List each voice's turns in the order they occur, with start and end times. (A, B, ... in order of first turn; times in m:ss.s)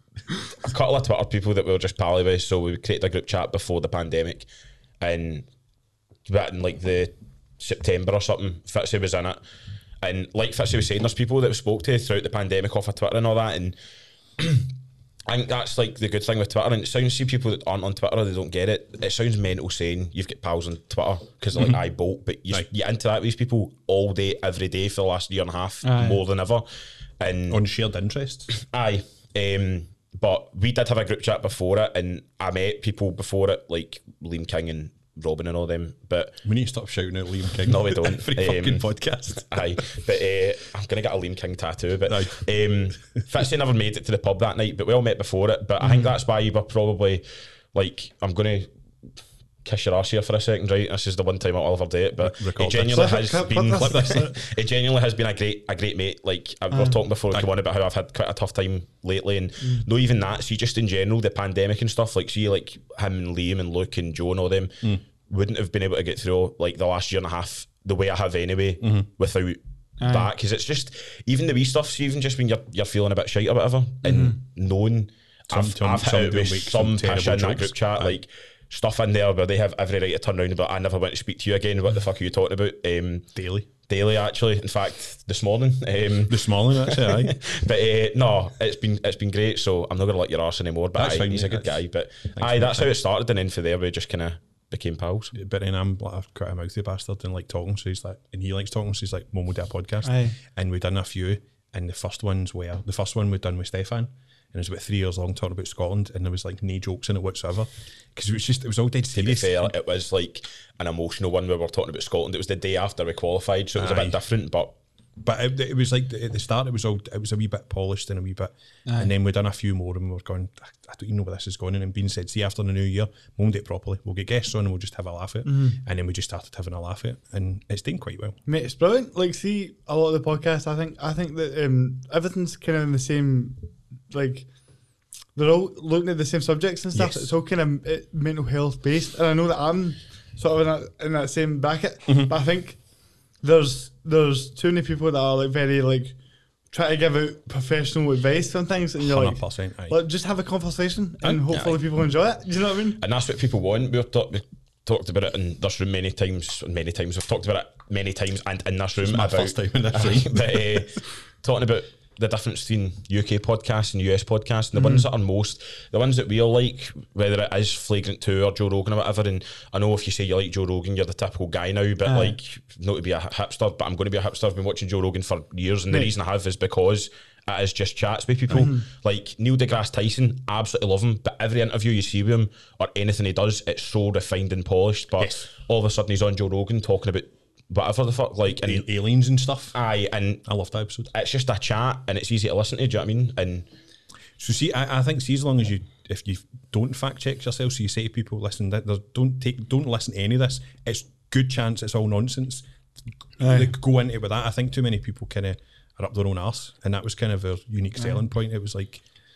0:00.6-0:04.5 A
0:05.0-0:05.4 A
0:06.3-0:09.4 A
0:10.0-0:13.8 A
0:14.4-0:14.7 A
0:15.3-0:26.6 A
0:25.8-0:26.2 B
0:27.2-0:27.6 A
0:27.5-0:28.5 C
0:28.5-0:36.4 A
0:36.4-0:39.8 C
0:37.6-0:38.9 A
0:39.4-0:48.7 A
0:42.1-0:42.4 C
0:45.8-0:46.1 B
0:49.6-1:23.3 A
0:52.2-0:53.1 C
0:52.9-0:54.4 B
0:56.7-0:57.0 B
1:08.8-1:09.1 C
1:10.0-1:10.3 B
1:14.0-1:14.4 B
1:15.5-1:18.2 C
1:23.3-1:23.7 C
1:23.9-1:35.3 A
1:26.3-1:27.4 C
1:31.0-1:31.8 C
1:32.3-1:32.9 C
1:35.3-1:49.7 C
1:40.0-1:40.4 B
1:49.1-1:54.7 A
1:53.8-1:54.2 C
1:55.2-2:08.4 C
2:05.4-2:05.8 B
2:08.4-2:13.6 B
2:14.1-2:14.5 B
2:15.3-2:22.8 B
2:16.9-2:17.3 C
2:23.4-2:26.2 B
2:26.7-2:33.0 B
2:29.0-2:30.0 C
2:31.5-2:31.8 A
2:33.0-3:08.8 A
2:39.0-2:40.8 C
2:44.8-2:45.0 B
2:52.0-2:52.4 B
2:58.5-2:58.8 B
3:05.2-3:05.5 C
3:08.5-3:09.8 C
3:09.7-3:10.4 A
3:10.4-3:11.1 C
3:11.1-3:13.7 A
3:14.4-3:22.6 C
3:23.4-3:23.7 B
3:23.4-3:29.0 C